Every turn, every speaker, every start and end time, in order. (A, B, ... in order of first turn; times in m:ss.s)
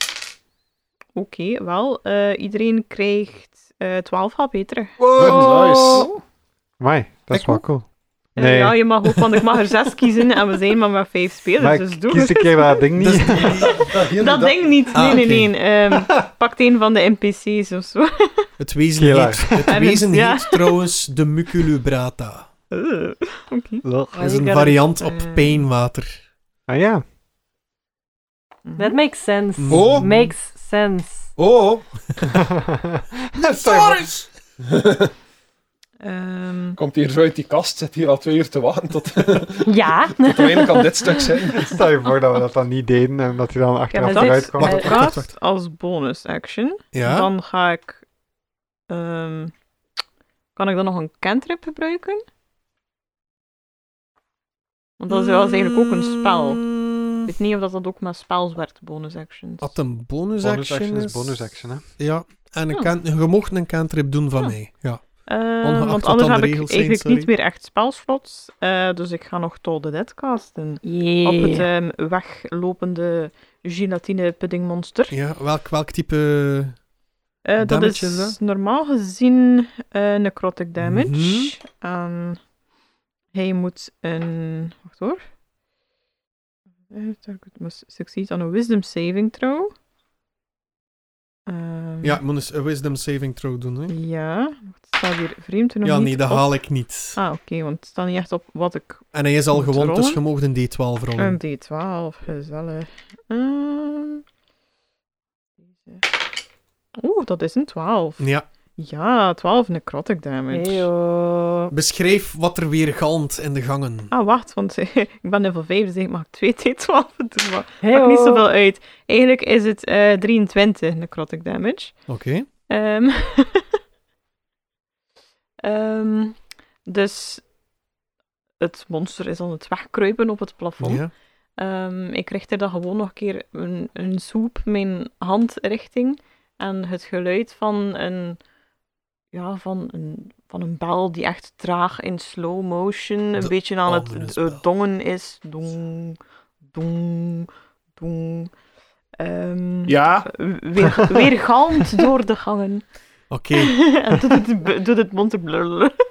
0:01.2-0:05.3 A
0:05.0-0:06.0 B
0:05.1-0:06.1 C
0:05.2-0:06.2 D
0:06.8-0:08.8 E
0:07.3-0:07.6 B
0:08.4-0:12.8 A
0:11.6-0:13.7 E
0:13.0-0:14.1 B
0:13.7-0:18.5 A
0:13.9-0:14.6 C
0:14.9-0:15.5 B
0:18.6-0:22.5 B
0:19.0-0:19.8 E
0:19.7-0:20.8 A
0:22.7-0:23.8 A
0:23.8-0:24.1 E
0:24.1-0:24.8 D
0:24.2-0:26.2 B
0:25.0-0:25.6 A
0:26.7-0:27.0 E
0:28.7-0:29.0 A
0:28.8-0:31.3 D
0:29.6-0:30.1 B
0:29.7-0:30.3 C
0:31.4-0:31.9 C
0:32.5-0:34.1 E
0:34.7-0:35.1 C
0:36.0-0:36.8 A
0:36.8-0:41.8 C
0:39.7-0:41.2 D
0:41.6-0:45.0 E
0:43.9-0:48.0 A
0:44.0-0:45.0 D
0:44.6-0:45.3 B
0:46.9-0:47.3 B
0:48.9-0:49.5 A
0:50.6-0:52.2 A
0:55.0-0:56.7 A
0:55.1-0:57.3 B
0:57.3-0:59.7 A
0:59.6-1:07.3 B
1:00.4-1:01.8 E
1:05.3-1:15.2 A
1:10.8-1:11.7 D
1:15.1-1:16.8 B
1:17.4-1:22.4 A
1:17.6-1:18.4 B
1:20.8-1:21.5 B
1:23.3-1:25.2 A
1:26.9-1:29.7 A
1:31.5-1:32.2 A
1:32.0-1:34.0 B
1:33.9-1:36.5 A
1:35.8-1:37.2 B
1:37.2-1:40.2 A
1:39.1-1:41.4 B
1:41.2-1:44.2 A
1:47.0-1:48.3 A
1:48.2-1:48.5 B
1:48.8-1:50.9 A
1:50.5-1:51.7 D
1:51.7-1:54.1 B
1:54.1-2:02.1 A
1:57.8-1:58.4 D
2:02.1-2:02.5 B
2:02.7-2:03.7 A
2:05.6-2:07.4 A
2:08.6-2:11.0 A
2:10.8-2:11.1 B
2:11.6-2:18.4 A
2:19.3-2:28.5 A
2:23.4-2:24.6 B
2:29.2-2:32.8 A
2:29.9-2:30.3 C
2:33.3-2:33.8 B
2:33.6-2:36.0 A